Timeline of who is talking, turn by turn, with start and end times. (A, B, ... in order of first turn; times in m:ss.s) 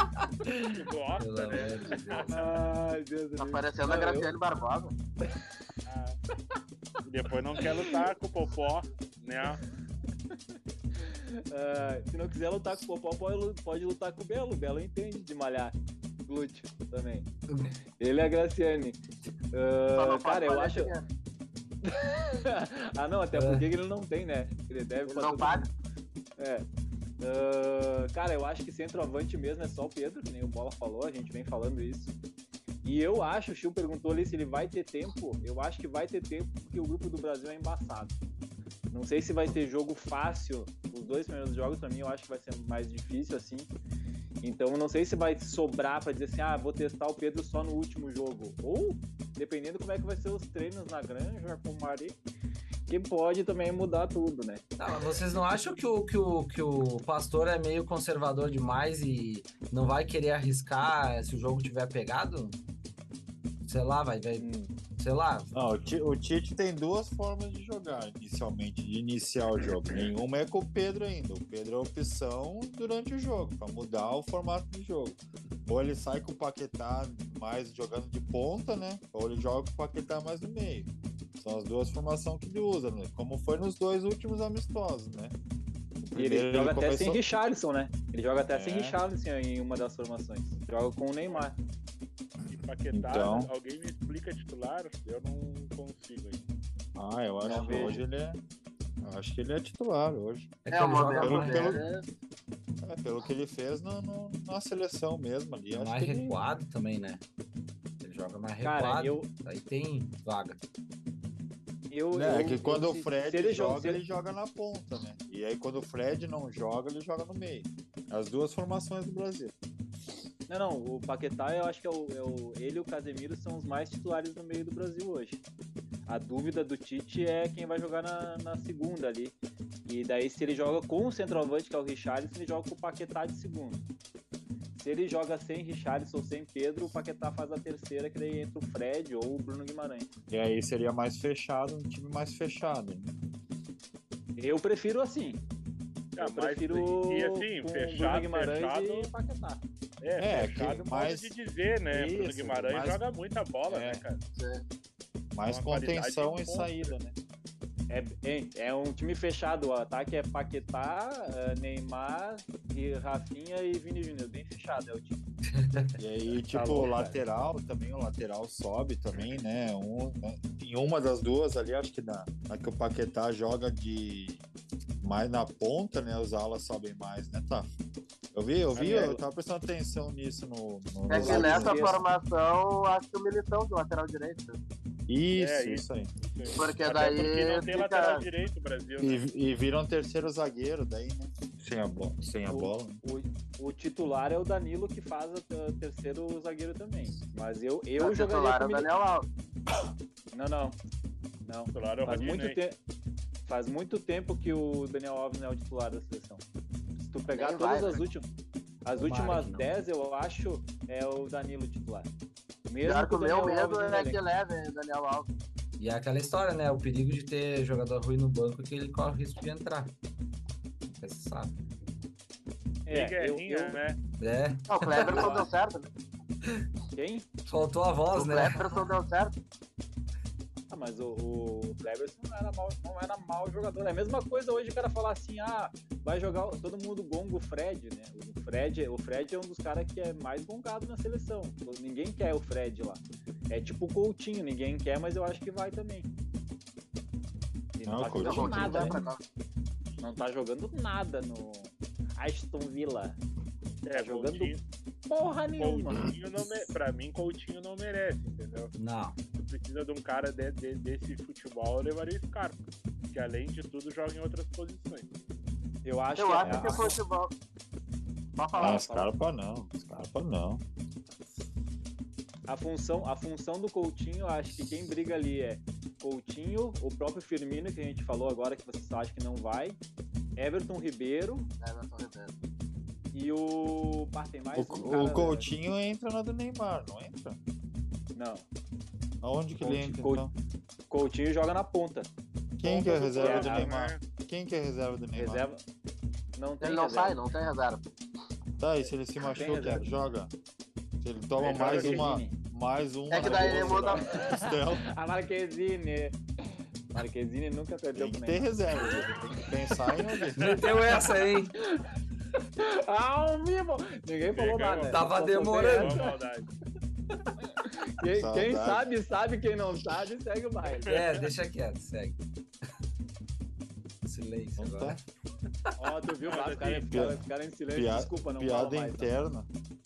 0:00.2-0:02.4 A
0:00.6-0:02.6 B
0:02.3-0:04.3 C
0:03.4-0:04.9 D
0:05.9-0:06.2 B
0:07.0-0:09.6 B
0:11.0-0:17.3 C
0:18.0-0:19.0 C
0:19.5-0:20.9 C
0:19.9-0:21.1 D
0:21.8-0:25.7 C
0:23.3-0:23.7 A
0:25.1-0:25.7 D
0:26.4-0:26.6 C
0:27.2-0:32.1 C
0:32.8-0:38.2 C
0:38.9-0:43.7 C
0:44.4-0:52.2 C
0:52.9-0:54.6 C
0:54.8-1:02.6 A
1:03.6-1:05.5 A
1:04.4-1:04.7 C
1:05.5-1:25.4 E
1:26.0-1:31.6 C
1:26.1-1:27.2 E
1:28.5-1:29.0 E
1:32.5-1:36.4 B
1:32.9-1:33.5 E
1:37.0-1:38.4 E
1:37.4-1:38.0 D
1:37.4-1:38.0 C
1:39.0-1:40.6 E
1:40.7-1:41.8 A
1:40.7-1:42.0 D
1:41.1-1:41.9 E
1:42.8-1:46.4 E
1:45.7-1:47.2 A
1:48.0-1:50.6 A
1:48.6-1:49.3 C
1:51.9-1:54.0 C
1:52.1-1:59.6 E
2:00.5-2:05.4 C
2:06.1-2:13.9 C
2:14.8-2:20.1 C
2:20.3-2:23.1 E
2:24.4-2:25.4 C
2:26.2-2:29.1 B
2:26.2-2:29.6 C
2:30.0-2:34.2 B
2:30.2-2:31.3 E
2:31.9-2:33.0 E
2:33.7-2:34.0 E
2:34.4-2:34.6 D
2:35.3-2:37.2 E
2:35.5-2:36.9 B
2:37.9-2:45.2 C
2:45.6-2:45.9 A
2:46.0-2:54.4 E
2:46.5-2:47.2 C
2:55.0-2:57.7 E
2:58.3-3:02.0 E
2:58.8-2:59.2 C
3:01.1-3:04.6 D
3:01.1-3:02.0 C
3:05.1-3:06.1 E
3:05.4-3:09.2 B
3:06.6-3:08.2 D
3:09.0-3:13.0 E
3:12.5-3:18.9 C
3:18.0-3:19.3 D
3:20.3-3:20.8 C
3:21.4-3:22.8 C
3:21.7-3:22.6 B
3:23.4-3:26.4 C
3:27.0-3:28.2 C
3:27.3-3:28.0 D
3:28.8-3:32.1 C
3:28.9-3:29.7 A
3:32.7-3:34.2 C
3:32.8-3:35.3 D
3:35.8-3:39.9 A
3:40.9-3:41.6 A
3:42.9-3:43.8 C
3:42.9-3:44.0 B
3:44.2-3:45.3 A
3:44.7-3:45.9 D
3:45.0-3:45.5 C
3:47.0-3:47.3 C
3:47.5-3:48.7 A
3:48.1-3:49.4 D
3:50.7-4:06.1 C
4:07.8-4:09.1 C
4:07.9-4:09.1 E
4:08.1-4:09.2 D
4:10.0-4:13.2 C
4:13.8-4:14.6 B
4:13.9-4:14.5 C
4:15.1-4:16.1 C
4:15.6-4:18.7 B
4:18.8-4:19.2 A
4:19.3-4:25.1 B
4:25.8-4:27.0 C
4:26.2-4:27.3 D
4:26.4-4:27.0 E
4:28.4-4:29.0 D
4:28.6-4:30.6 E
4:28.6-4:29.1 C
4:32.5-4:39.8 C
4:40.4-4:41.5 C
4:41.6-4:42.4 D
4:43.1-4:45.5 C
4:44.5-4:47.4 E
4:48.1-4:48.5 C
4:49.2-4:50.3 E
4:49.6-4:50.3 C
4:50.9-4:52.1 C
4:52.6-4:55.5 E
4:52.6-4:54.0 B
4:53.2-4:53.7 C
4:55.1-4:55.6 C
4:56.4-4:57.2 C
4:56.6-4:57.9 D
4:58.6-5:00.3 E
4:59.2-5:00.1 C
5:01.0-5:04.9 E
5:01.4-5:02.4 C
5:01.4-5:02.2 B
5:03.1-5:04.1 D
5:03.2-5:10.1 C
5:08.0-5:10.6 E
5:10.4-5:11.6 A
5:11.6-5:11.9 C
5:12.6-5:16.2 C
5:14.3-5:15.0 B
5:14.9-5:16.0 A
5:15.6-5:16.5 B
5:17.4-5:20.9 C
5:18.1-5:18.9 E
5:20.7-5:21.3 B
5:20.9-5:22.2 A
5:24.0-5:25.0 A
5:24.6-5:25.0 E
5:25.8-5:29.1 C
5:26.2-5:26.9 B
5:26.9-5:29.5 E